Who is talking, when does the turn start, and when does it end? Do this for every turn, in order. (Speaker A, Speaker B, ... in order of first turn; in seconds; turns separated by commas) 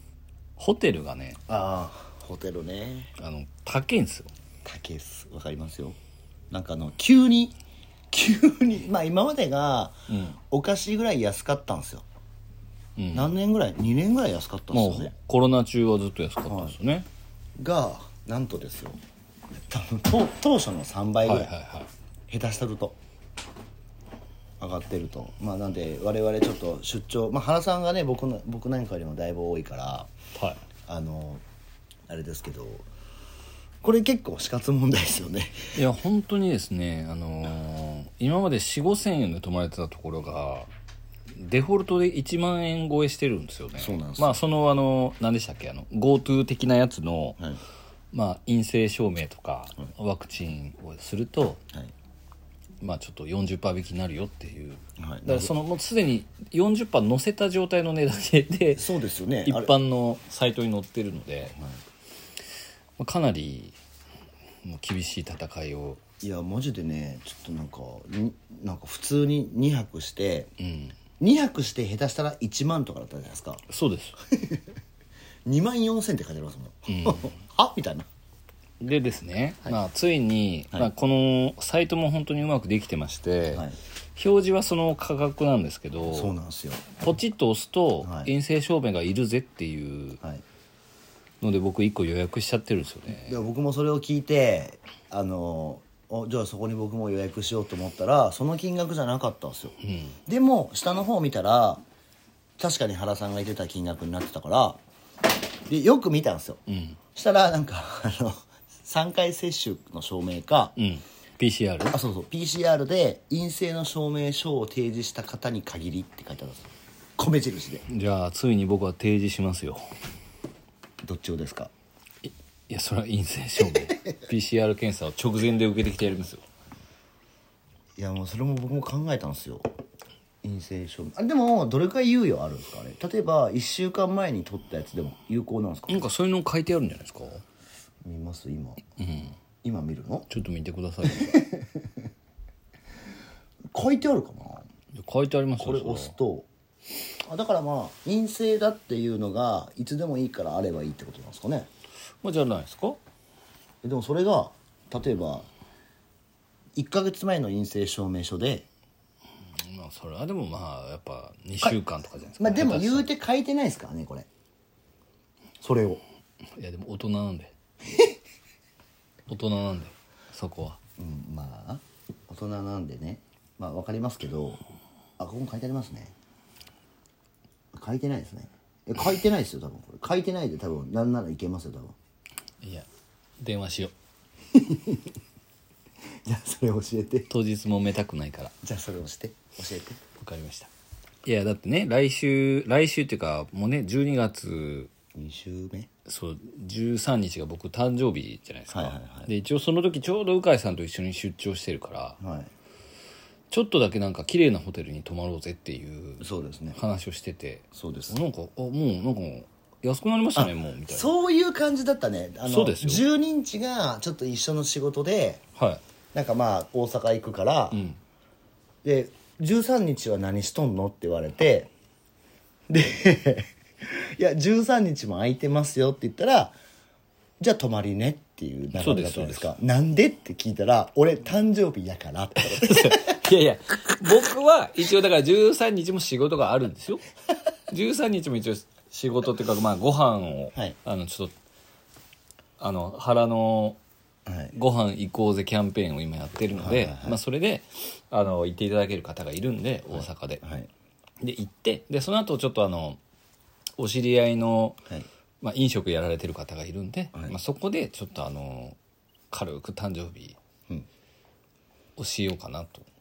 Speaker A: 0.6-1.4, Speaker B: 1.5-3.1, Speaker A: 3.2-4.3, Speaker B: 4.6-6.0, Speaker B: 6.5-7.5, Speaker B: 8.1-12.0, Speaker A: 10.1-10.3, Speaker A: 13.0-13.3, Speaker B: 13.1-15.1, Speaker A: 14.7-17.1, Speaker B: 16.5-16.8, Speaker B: 17.6-19.0, Speaker B: 19.7-21.5, Speaker A: 21.2-21.9, Speaker B: 22.3-23.0, Speaker B: 24.6-30.1, Speaker B: 30.9-31.4, Speaker B: 32.1-32.9, Speaker B: 33.8-35.8, Speaker A: 35.8-40.7, Speaker A: 41.3-47.4, Speaker B: 43.8-44.4, Speaker A: 48.1-51.6, Speaker A: 52.8-58.9, Speaker B: 55.0-55.5, Speaker B: 58.7-59.8, Speaker A: 59.5-61.5, Speaker B: 61.5-61.8, Speaker A: 63.0-63.8, Speaker A: 64.6-66.0, Speaker B: 66.2-70.5, Speaker A: 70.6-70.9, Speaker B: 71.2-73.6, Speaker A: 73.7-74.2, Speaker B: 74.2-74.7, Speaker B: 75.5-78.0, Speaker A: 76.9-77.3, Speaker A: 78.8-86.3, Speaker B: 83.5-83.8, Speaker B: 86.0-86.9, Speaker A: 87.0-90.2, Speaker B: 88.0-88.3, Speaker A: 91.4-93.4, Speaker B: 93.1-101.8, Speaker A: 99.8-100.1, Speaker B: 102.6-104.8, Speaker B: 105.7-106.6, Speaker A: 106.7-107.0, Speaker B: 107.1-110.8, Speaker A: 110.8-112.0, Speaker B: 111.9-117.8, Speaker A: 117.9-119.9, Speaker B: 121.0-121.7, Speaker A: 122.2-126.4, Speaker B: 128.0-129.7, Speaker B: 130.4-136.1, Speaker A: 135.9-137.4, Speaker B: 138.0-138.8, Speaker A: 139.0-139.3, Speaker B: 139.6-140.3, Speaker A: 140.3-141.4, Speaker B: 141.0-142.0, Speaker B: 143.7-144.7, Speaker A: 144.9-146.1, Speaker B: 145.6-146.5, Speaker B: 147.2-151.7, Speaker A: 152.2-153.0, Speaker B: 153.8-155.5, Speaker B: 156.8-158.7, Speaker A: 159.6-163.1, Speaker B: 162.4-164.3, Speaker B: 165.6-166.0, Speaker A: 166.5-167.5, Speaker A: 169.3-170.8, Speaker B: 171.0-174.6, Speaker B: 175.2-176.1, Speaker B: 177.7-181.9, Speaker A: 182.6-182.9, Speaker A: 183.4-183.9, Speaker B: 184.5-185.1, Speaker B: 186.2-187.3, Speaker A: 187.3-188.5, Speaker B: 188.6-190.0, Speaker A: 190.2-190.7, Speaker A: 191.2-194.9, Speaker B: 195.1-195.9, Speaker A: 196.1-202.2, Speaker B: 198.7-199.3, Speaker B: 202.2-202.5, Speaker A: 203.5-211.1, Speaker B: 206.2-206.8, Speaker B: 207.7-208.2, Speaker B: 210.3-215.4, Speaker A: 212.4-213.0, Speaker A: 215.6-215.8, Speaker B: 216.1-217.8, Speaker A: 217.7-218.0, Speaker B: 218.8-221.7, Speaker B: 222.7-226.6, Speaker B: 227.4-233.3, Speaker A: 228.7-229.5, Speaker A: 232.4-237.0, Speaker A: 237.7-241.3, Speaker A: 242.6-243.8, Speaker B: 244.2-244.5, Speaker A: 244.5-250.4, Speaker B: 246.5-247.2, Speaker B: 249.9-250.7, Speaker A: 251.2-253.0, Speaker A: 253.8-254.8, Speaker A: 255.4-258.8, Speaker A: 259.3-260.4, Speaker A: 262.0-262.9